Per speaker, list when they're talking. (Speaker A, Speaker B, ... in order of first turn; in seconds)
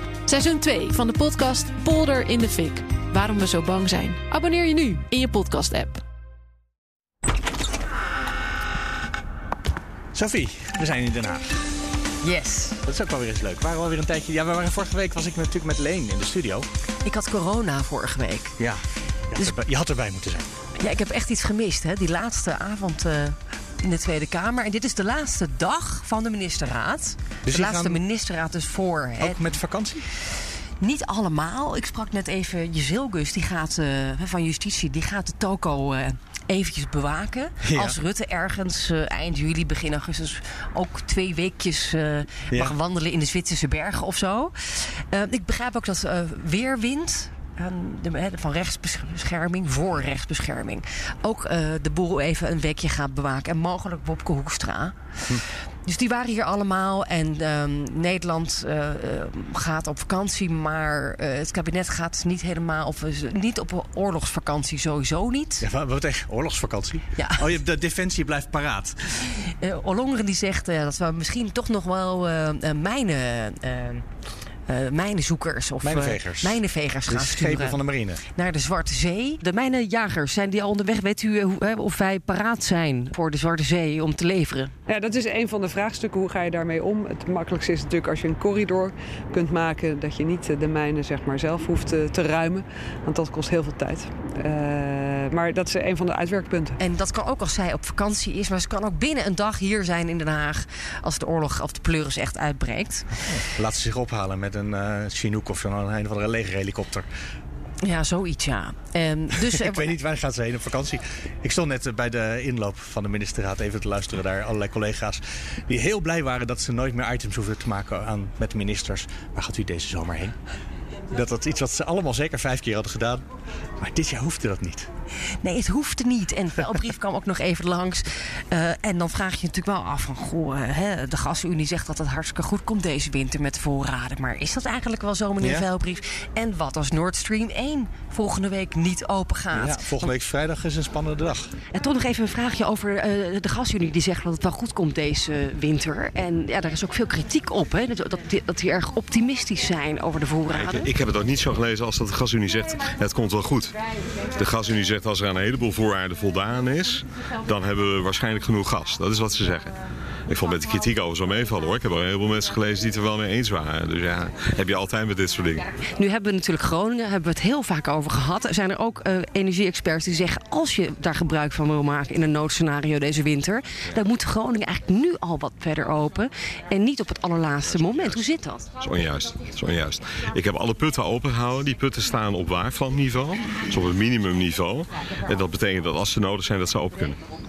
Speaker A: 0.3-6.0
Speaker B: 10.1-11.6, 12.8-16.7, 18.6-20.5, 27.4-28.0, 29.2-30.1, 37.6-38.0, 42.5-42.8, 65.6-69.2, 75.8-78.2, 103.3-107.1, 109.4-120.4, 121.1-123.2, 123.8-124.9, 135.4-135.7, 139.5-141.5
Speaker C: 12.2-12.8, 17.1-18.6, 20.8-29.4, 30.8-55.0, 55.9-65.7, 67.2-67.5, 69.3-74.1, 74.7-77.8, 78.3-84.7, 96.8-103.2, 107.8-109.9, 125.4-140.1, 141.7-150.9, 166.0-178.7
Speaker D: 84.9-96.8
Speaker E: 150.5-153.8, 154.3-159.7, 160.3-165.7, 177.7-178.2, 178.8-187.2